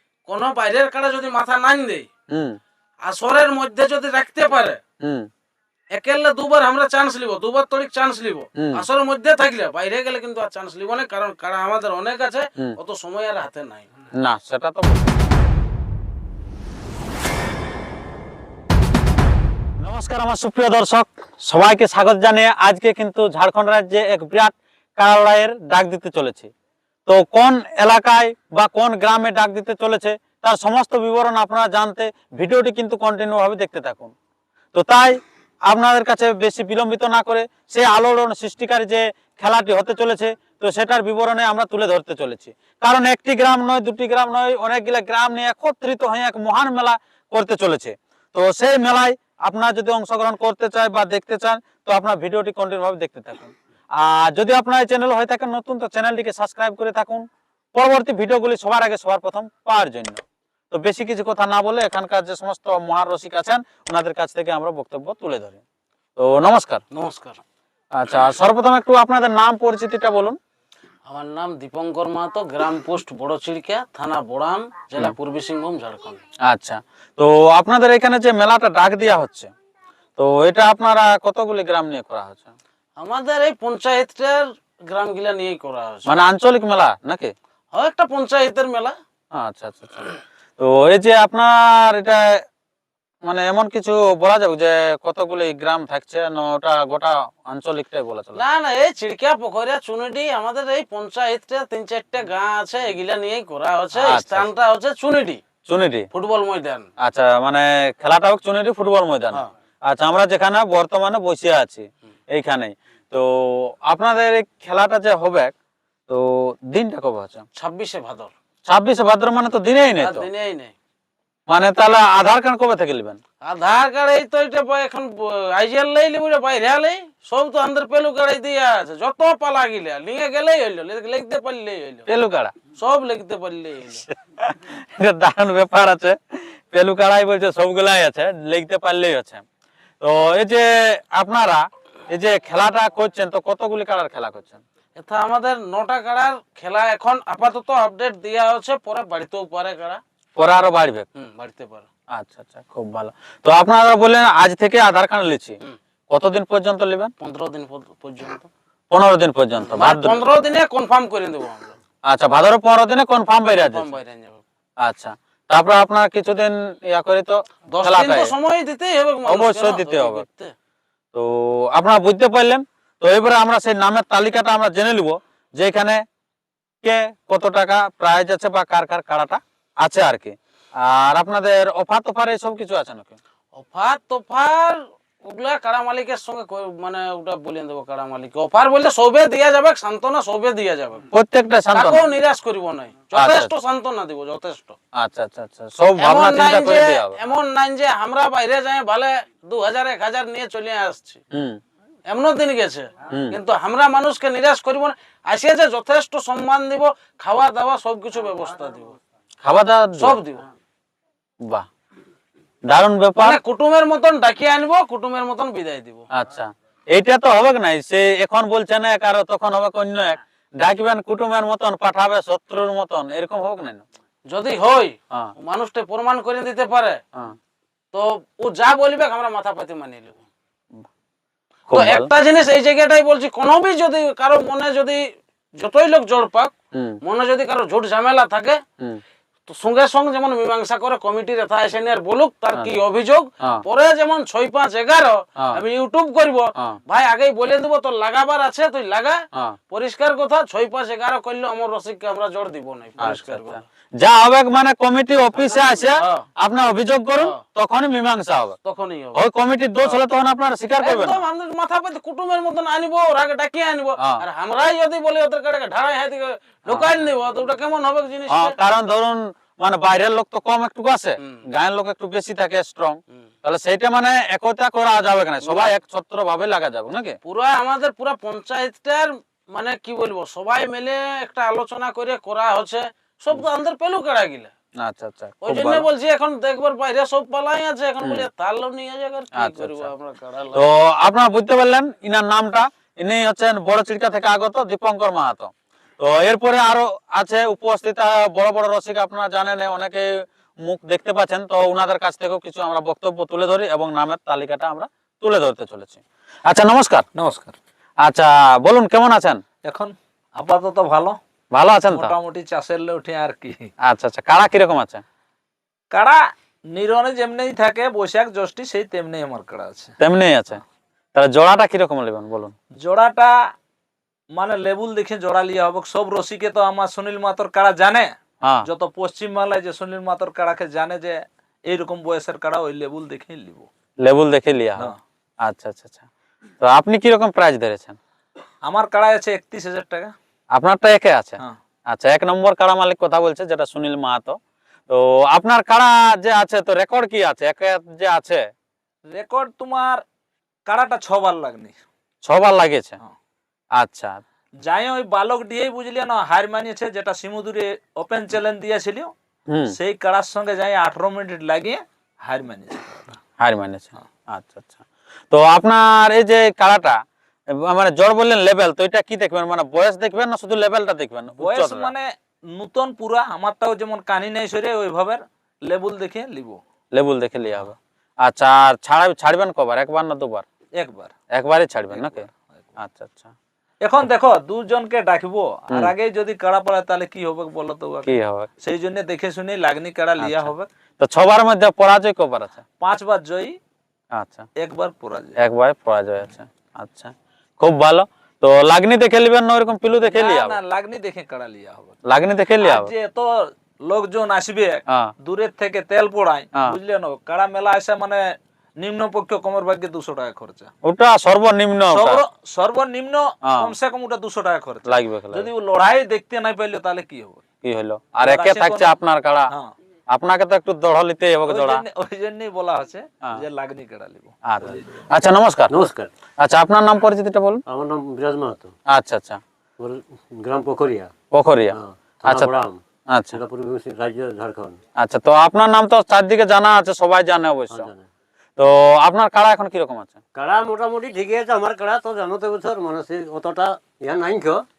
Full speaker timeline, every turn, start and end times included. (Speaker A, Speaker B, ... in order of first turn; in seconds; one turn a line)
Speaker A: 0.2-2.0
Speaker B: 2.3-2.6
Speaker A: 3.0-4.8
Speaker B: 5.0-5.3
Speaker A: 5.9-13.9
Speaker B: 14.2-15.1
Speaker B: 19.8-26.5
Speaker B: 27.1-34.1
Speaker B: 34.7-65.6
Speaker B: 66.2-66.8
Speaker A: 66.9-67.4
Speaker B: 67.9-70.4
Speaker A: 71.1-76.2
Speaker B: 76.5-79.5
Speaker B: 80.2-82.5
Speaker A: 83.0-86.1
Speaker B: 86.1-87.3
Speaker A: 87.7-88.9
Speaker B: 89.3-92.4
Speaker B: 93.2-98.4
Speaker A: 98.3-105.4
Speaker B: 103.9-104.5
Speaker B: 105.7-106.0
Speaker A: 106.1-106.9
Speaker B: 107.0-115.5
Speaker B: 116.1-117.4
Speaker A: 117.6-118.3
Speaker B: 118.7-120.3
Speaker A: 120.0-120.7
Speaker B: 121.5-123.2
Speaker A: 123.4-132.1
Speaker B: 132.1-132.5
Speaker A: 132.7-134.0
Speaker B: 134.1-139.4
Speaker B: 140.0-144.6
Speaker A: 145.0-150.0
Speaker B: 150.4-151.1
Speaker A: 151.1-151.9
Speaker B: 152.1-155.6
Speaker B: 156.1-157.1
Speaker A: 157.2-158.5
Speaker B: 158.9-160.2
Speaker A: 159.6-161.7
Speaker B: 162.1-163.9
Speaker A: 163.5-164.4
Speaker B: 164.8-168.3
Speaker A: 167.7-170.5
Speaker B: 169.3-170.2
Speaker B: 171.1-176.0
Speaker B: 176.8-183.2
Speaker A: 183.6-191.1
Speaker B: 191.1-192.0
Speaker A: 191.7-194.8
Speaker B: 193.1-193.5
Speaker B: 195.0-197.2
Speaker A: 196.0-201.2
Speaker B: 201.3-201.6
Speaker A: 202.1-209.0
Speaker B: 209.4-210.2
Speaker A: 210.0-210.4
Speaker B: 212.7-213.4
Speaker A: 213.2-216.0
Speaker B: 216.1-223.8
Speaker A: 224.3-227.0
Speaker A: 227.9-230.2
Speaker B: 231.7-232.1
Speaker A: 231.7-235.0
Speaker A: 235.6-238.6
Speaker B: 236.7-237.0
Speaker A: 239.5-253.6
Speaker B: 253.0-258.6
Speaker A: 255.3-256.2
Speaker A: 258.6-259.2
Speaker B: 259.1-261.2
Speaker A: 260.8-268.6
Speaker B: 268.3-277.1
Speaker A: 275.4-275.7
Speaker A: 277.2-284.5
Speaker B: 284.8-285.9
Speaker A: 285.4-290.6
Speaker B: 289.4-289.9
Speaker B: 290.5-307.0
Speaker C: 307.1-307.6
Speaker B: 308.0-309.4
Speaker C: 309.6-311.2
Speaker B: 311.5-312.1
Speaker C: 311.9-313.7
Speaker B: 313.8-315.0
Speaker C: 315.9-316.2
Speaker C: 316.7-319.9
Speaker B: 320.0-320.6
Speaker B: 321.1-322.5
Speaker C: 322.8-323.4
Speaker C: 324.3-333.7
Speaker B: 334.0-334.9
Speaker B: 335.4-336.1
Speaker B: 336.6-338.0
Speaker C: 338.6-340.1
Speaker B: 340.5-344.4
Speaker B: 344.9-348.4
Speaker C: 349.1-350.0
Speaker C: 350.6-351.8
Speaker B: 352.2-353.0
Speaker B: 353.8-354.2
Speaker C: 354.6-359.1
Speaker B: 359.5-359.7
Speaker C: 359.7-363.2
Speaker B: 363.4-364.8
Speaker B: 365.3-371.9
Speaker C: 371.4-376.6
Speaker B: 376.9-380.4
Speaker C: 380.8-381.1
Speaker B: 381.3-383.3
Speaker C: 381.9-382.3
Speaker C: 383.8-390.7
Speaker B: 388.0-388.5
Speaker B: 390.2-392.6
Speaker C: 392.8-393.6
Speaker B: 394.1-394.5
Speaker C: 394.6-395.4
Speaker B: 395.4-400.6
Speaker C: 400.0-401.9
Speaker B: 402.1-402.9
Speaker C: 402.6-410.7
Speaker B: 410.8-412.2
Speaker C: 411.9-417.4
Speaker B: 413.4-413.7
Speaker B: 414.8-415.5
Speaker B: 417.6-419.5
Speaker C: 418.2-419.0
Speaker B: 420.1-421.8
Speaker C: 421.4-425.0
Speaker B: 424.4-425.8
Speaker D: 425.7-426.1
Speaker B: 426.4-427.6
Speaker D: 427.7-428.7
Speaker B: 428.9-429.4
Speaker D: 429.8-431.2
Speaker B: 431.3-432.6
Speaker D: 431.7-432.8
Speaker B: 433.1-433.4
Speaker D: 433.3-434.8
Speaker B: 435.0-437.9
Speaker D: 437.7-438.1
Speaker B: 438.6-440.2
Speaker D: 440.3-444.6